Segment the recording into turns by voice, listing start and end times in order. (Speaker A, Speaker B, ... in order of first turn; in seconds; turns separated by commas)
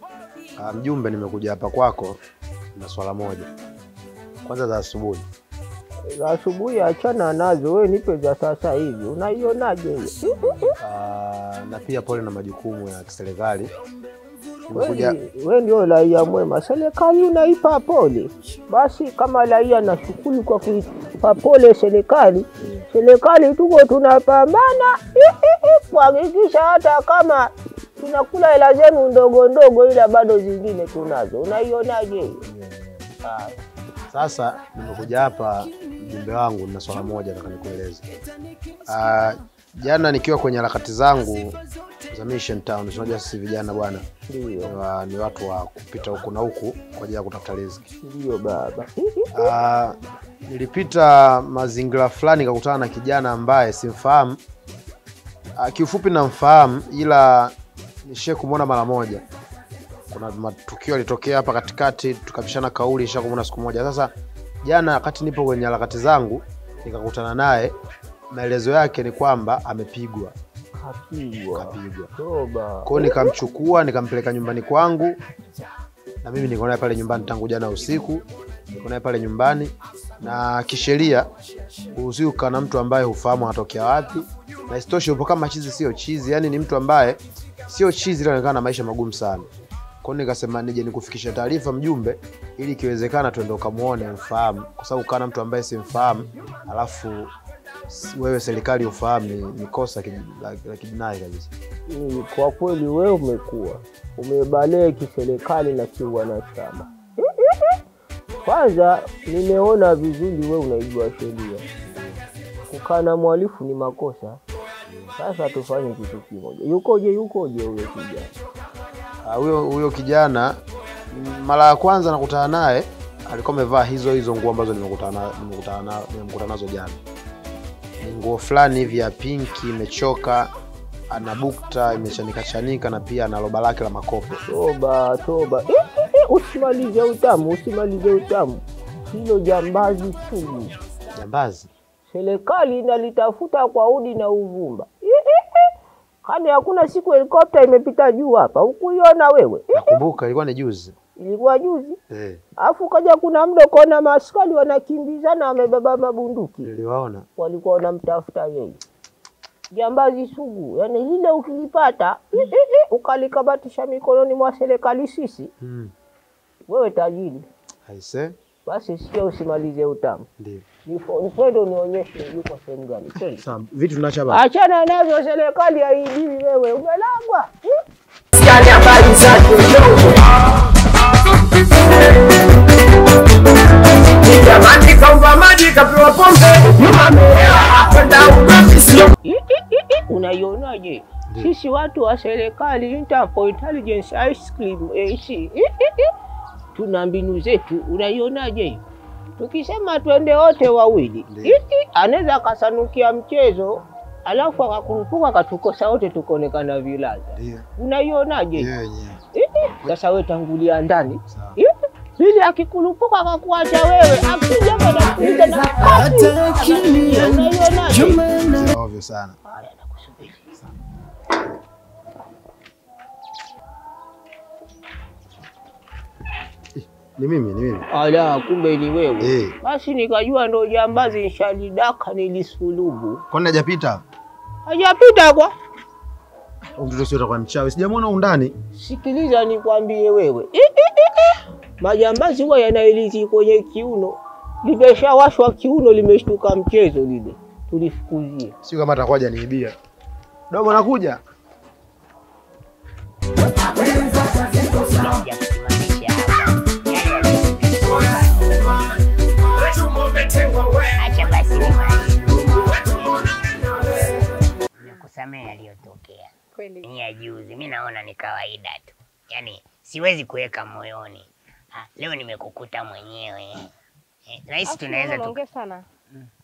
Speaker A: 0.6-2.2, Speaker A: 2.7-3.5, Speaker A: 4.4-5.3, Speaker B: 6.1-10.6, Speaker A: 10.8-13.7, Speaker A: 14.7-15.2, Speaker B: 14.7-32.4, Speaker A: 32.4-33.0, Speaker B: 33.2-33.6, Speaker A: 34.1-38.0, Speaker A: 38.9-44.0, Speaker B: 44.3-44.7, Speaker A: 44.6-47.8, Speaker B: 48.0-49.5, Speaker A: 49.3-54.4, Speaker A: 55.6-57.5, Speaker A: 58.0-59.2, Speaker A: 60.1-64.1, Speaker A: 64.6-67.7, Speaker A: 68.3-70.3, Speaker B: 70.8-73.2, Speaker A: 71.5-72.1, Speaker A: 72.8-75.2, Speaker A: 76.2-81.3, Speaker A: 81.9-89.5, Speaker A: 90.0-97.3, Speaker A: 97.9-101.5, Speaker B: 101.9-107.6, Speaker B: 108.4-111.7, Speaker B: 112.7-114.4, Speaker A: 114.9-115.1, Speaker B: 115.2-118.3, Speaker A: 119.2-120.5, Speaker A: 121.1-127.0, Speaker A: 128.0-130.5, Speaker A: 131.1-134.4, Speaker B: 134.5-140.8, Speaker A: 141.1-141.7, Speaker B: 142.1-145.6, Speaker B: 146.2-150.0, Speaker A: 149.7-150.9, Speaker B: 151.2-152.0, Speaker A: 152.1-152.4, Speaker B: 152.6-156.7, Speaker A: 156.6-157.2, Speaker B: 157.4-158.8, Speaker B: 159.7-165.5, Speaker A: 165.6-165.9, Speaker B: 166.7-167.4, Speaker A: 167.8-168.3, Speaker B: 168.7-170.2, Speaker A: 170.4-170.7, Speaker B: 170.8-173.4, Speaker A: 173.3-174.4, Speaker B: 174.3-177.5, Speaker C: 178.4-180.0, Speaker C: 184.2-189.1, Speaker B: 189.2-196.1, Speaker B: 196.7-198.8, Speaker B: 199.4-208.7, Speaker A: 201.3-201.6, Speaker A: 207.3-207.7, Speaker A: 208.6-209.2, Speaker B: 209.3-218.3, Speaker A: 211.3-211.6, Speaker A: 218.4-219.4, Speaker B: 219.4-220.5, Speaker A: 226.8-227.8, Speaker B: 227.9-233.2, Speaker A: 229.2-229.6, Speaker A: 233.3-234.0, Speaker B: 234.6-235.5, Speaker A: 236.8-238.5, Speaker B: 238.7-248.5, Speaker A: 248.6-249.7, Speaker A: 250.5-251.2, Speaker D: 253.8-258.9, Speaker D: 260.3-264.2, Speaker D: 264.8-266.3, Speaker D: 266.8-273.6, Speaker D: 274.3-275.4